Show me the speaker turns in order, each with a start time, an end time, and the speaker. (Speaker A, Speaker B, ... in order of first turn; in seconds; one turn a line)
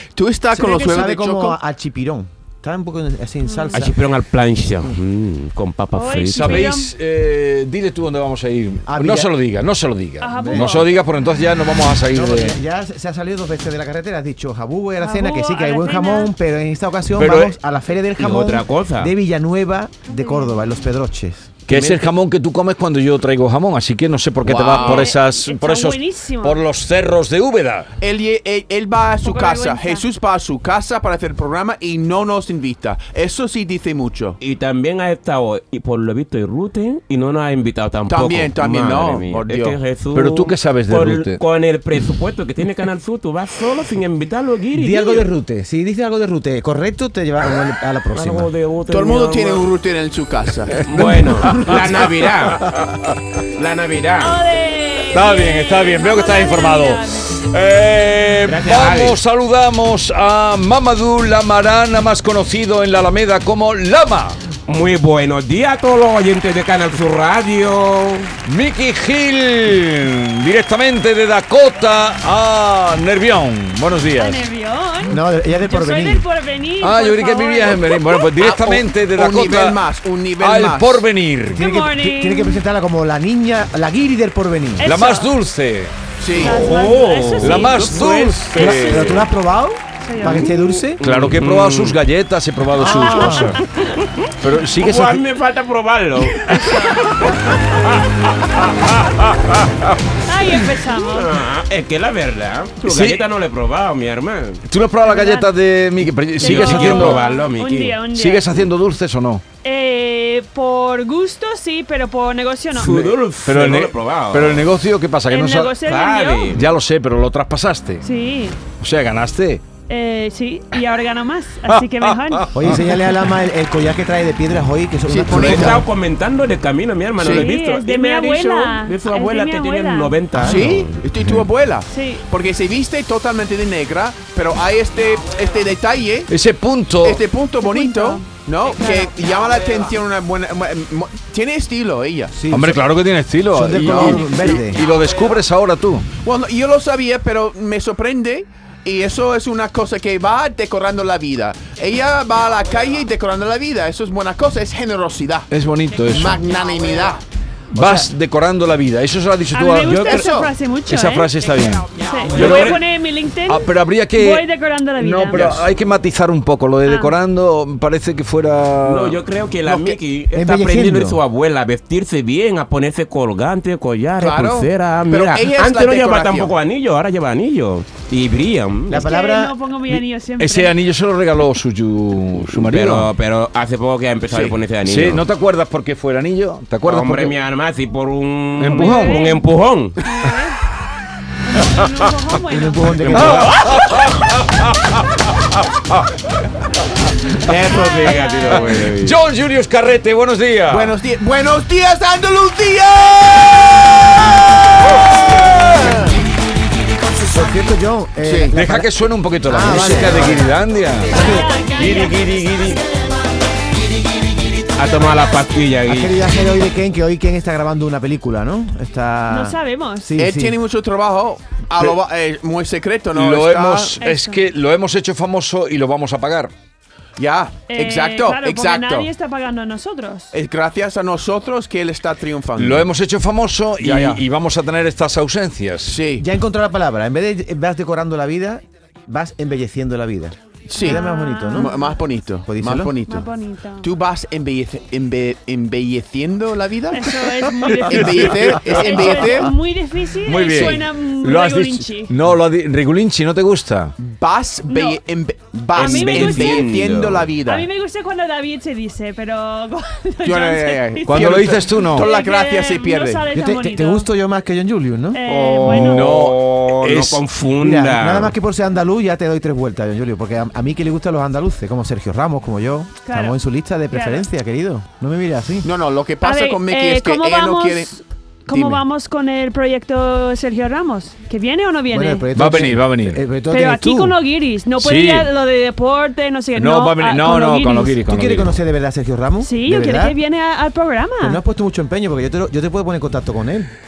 Speaker A: 0.1-1.6
Speaker B: 0.5-4.0
Speaker C: 3.4-3.8
Speaker D: 3.7-6.7
Speaker C: 5.9-6.9
Speaker E: 6.3-12.6
Speaker B: 8.9-9.3
Speaker C: 10.2-10.9
Speaker B: 10.3-10.8
Speaker B: 12.1-21.5
Speaker C: 15.0-16.3
Speaker E: 17.1-17.6
Speaker D: 18.2-19.1
Speaker C: 20.0-20.7
Speaker E: 21.7-27.9
Speaker D: 21.7-22.0
Speaker A: 24.4-25.1
Speaker C: 24.7-26.6
Speaker A: 28.0-34.4
Speaker C: 29.2-30.0
Speaker D: 34.4-45.3
Speaker A: 38.1-39.8
Speaker E: 40.1-41.4
Speaker B: 44.7-48.5
Speaker D: 48.1-49.7
Speaker A: 48.9-51.0
Speaker D: 50.8-52.7
Speaker E: 50.9-52.0
Speaker E: 52.7-53.1
Speaker D: 53.5-54.4
Speaker C: 54.2-57.4
Speaker E: 55.1-64.4
Speaker D: 58.4-59.2
Speaker D: 64.7-68.3
Speaker E: 68.5-74.4
Speaker C: 74.2-78.3
Speaker B: 75.1-76.3
Speaker E: 76.8-79.8
Speaker A: 78.4-81.1
Speaker E: 80.4-81.6
Speaker C: 81.5-82.6
Speaker B: 81.5-84.9
Speaker C: 84.8-85.3
Speaker E: 84.8-85.9
Speaker A: 86.2-86.7
Speaker C: 86.3-87.9
Speaker D: 86.3-89.3
Speaker E: 87.4-89.1
Speaker B: 88.5-91.0
Speaker C: 90.0-90.5
Speaker E: 91.0-93.6
Speaker D: 91.0-92.0
Speaker B: 92.8-93.5
Speaker C: 93.0-93.4
Speaker D: 94.0-96.5
Speaker E: 94.4-95.2
Speaker C: 96.4-97.2
Speaker C: 100.2-101.3
Speaker D: 101.0-104.6
Speaker E: 102.8-103.2
Speaker E: 104.7-107.2
Speaker C: 105.0-105.5
Speaker C: 106.4-108.5
Speaker D: 106.4-108.0
Speaker E: 108.1-109.4
Speaker C: 109.6-112.9
Speaker D: 112.7-114.7
Speaker E: 113.4-115.8
Speaker C: 115.3-116.5
Speaker D: 115.8-116.7
Speaker E: 116.5-118.0
Speaker C: 118.0-118.6
Speaker E: 118.8-119.6
Speaker C: 119.9-122.5
Speaker E: 121.7-122.8
Speaker B: 122.5-125.8
Speaker A: 125.1-125.8
Speaker D: 125.3-131.0
Speaker A: 127.2-127.5
Speaker C: 127.2-130.2
Speaker B: 130.3-130.6
Speaker A: 130.4-136.3
Speaker C: 131.9-132.2
Speaker E: 136.3-137.2
Speaker A: 137.0-142.3
Speaker C: 137.6-139.1
Speaker B: 142.3-142.8
Speaker E: 142.5-146.1
Speaker B: 143.5-144.8
Speaker A: 143.8-144.4
Speaker A: 146.2-155.5
Speaker E: 155.5-156.5
Speaker A: 156.1-157.2
Speaker E: 157.7-160.3
Speaker B: 157.8-158.0
Speaker C: 159.5-161.3
Speaker A: 159.9-160.5
Speaker E: 160.9-162.8
Speaker C: 161.9-165.5
Speaker D: 162.3-162.8
Speaker E: 163.5-164.4
Speaker E: 165.0-169.2
Speaker C: 166.8-167.1
Speaker D: 168.8-179.1
Speaker B: 170.3-171.2
Speaker A: 174.2-176.5
Speaker B: 178.9-179.5
Speaker C: 178.9-180.7
Speaker E: 179.9-183.1
Speaker D: 182.5-185.2
Speaker A: 184.3-184.6
Speaker E: 184.8-187.4
Speaker D: 186.8-189.9
Speaker E: 188.6-189.3
Speaker C: 188.7-189.4
Speaker C: 190.0-190.6
Speaker C: 191.4-193.0
Speaker B: 192.5-193.5
Speaker D: 193.0-193.8
Speaker E: 193.1-196.1
Speaker A: 197.4-198.7
Speaker D: 197.7-199.2
Speaker C: 197.7-198.7
Speaker E: 198.7-200.9
Speaker A: 200.7-206.2
Speaker E: 205.2-205.9
Speaker B: 207.2-210.5
Speaker A: 208.2-208.5
Speaker E: 208.5-212.8
Speaker C: 211.1-212.2
Speaker B: 211.1-211.5
Speaker D: 214.7-216.3
Speaker B: 215.8-220.6
Speaker C: 219.3-220.1
Speaker A: 220.2-224.0
Speaker E: 223.1-226.5
Speaker C: 224.0-224.4
Speaker A: 227.2-229.1
Speaker C: 227.7-230.3
Speaker A: 230.3-232.9
Speaker E: 232.6-236.0
Speaker A: 233.8-234.2
Speaker A: 235.8-236.2
Speaker B: 236.2-241.7
Speaker A: 240.7-243.3
Speaker C: 240.8-241.9
Speaker B: 242.5-242.9
Speaker C: 243.1-243.9
Speaker A: 243.8-249.5
Speaker C: 246.9-252.1
Speaker E: 250.2-253.9
Speaker A: 254.0-257.7
Speaker C: 254.7-255.0
Speaker C: 255.7-256.7
Speaker D: 255.7-257.3
Speaker C: 257.4-264.1
Speaker A: 260.2-263.3
Speaker E: 261.1-262.1
Speaker B: 263.3-265.2
Speaker C: 265.1-266.1
Speaker D: 265.3-268.3
Speaker E: 265.6-267.2
Speaker B: 267.6-275.7
Speaker C: 273.0-273.4
Speaker C: 273.9-274.2
Speaker A: 275.6-277.9
Speaker C: 276.2-282.3
Speaker A: 278.5-278.8
Speaker B: 281.9-284.1
Speaker E: 282.3-283.2
Speaker C: 283.5-288.0
Speaker E: 284.8-285.3
Speaker E: 286.5-288.5
Speaker B: 288.1-290.2
Speaker C: 289.4-291.4
Speaker B: 291.2-293.7